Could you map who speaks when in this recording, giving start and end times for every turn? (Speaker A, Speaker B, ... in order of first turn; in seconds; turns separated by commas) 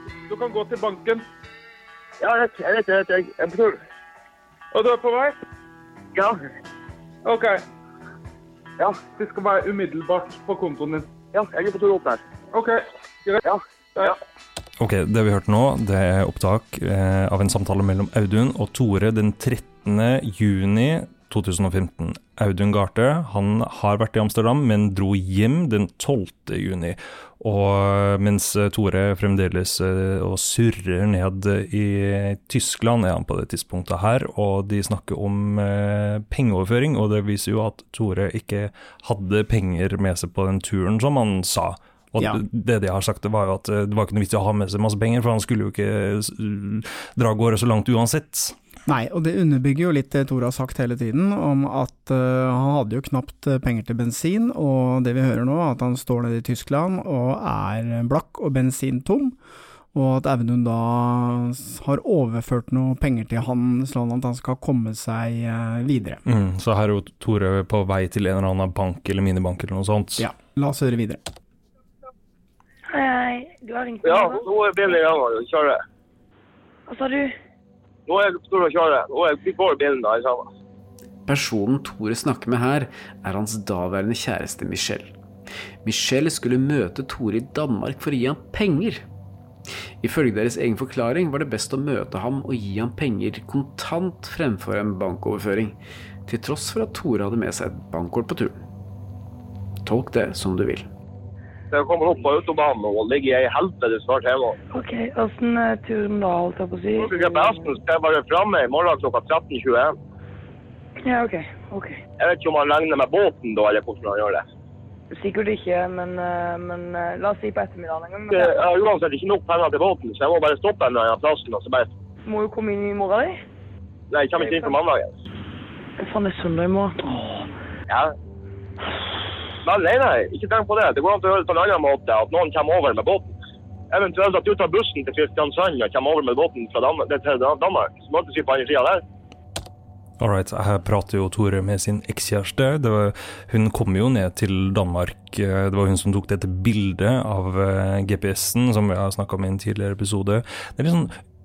Speaker A: 0.3-1.2, Speaker B: 2.2-3.8, Speaker A: 4.7-5.3, Speaker A: 7.2-7.6, Speaker A: 9.1-11.1, Speaker B: 11.3-12.2, Speaker A: 12.5-13.4, Speaker B: 13.4-14.2, Speaker C: 14.8-48.5, Speaker D: 48.9-59.3, Speaker D: 59.9-66.2, Speaker C: 66.2-70.2, Speaker D: 70.2-71.2, Speaker E: 72.9-74.4, Speaker B: 74.0-75.8, Speaker E: 76.9-77.3, Speaker B: 78.1-80.5, Speaker F: 81.3-85.1, Speaker F: 85.8-89.0, Speaker F: 90.0-98.6, Speaker F: 99.8-100.9, Speaker B: 101.7-104.6, Speaker E: 104.7-107.7, Speaker B: 106.9-110.0, Speaker E: 111.0-112.0, Speaker B: 112.2-114.4, Speaker E: 115.1-118.5, Speaker B: 118.3-121.9, Speaker E: 122.2-123.4, Speaker B: 124.1-125.2, Speaker E: 124.4-124.7, Speaker E: 126.0-127.2, Speaker B: 127.9-128.1, Speaker B: 129.6-133.3, Speaker B: 133.9-139.0, Speaker C: 140.2-151.1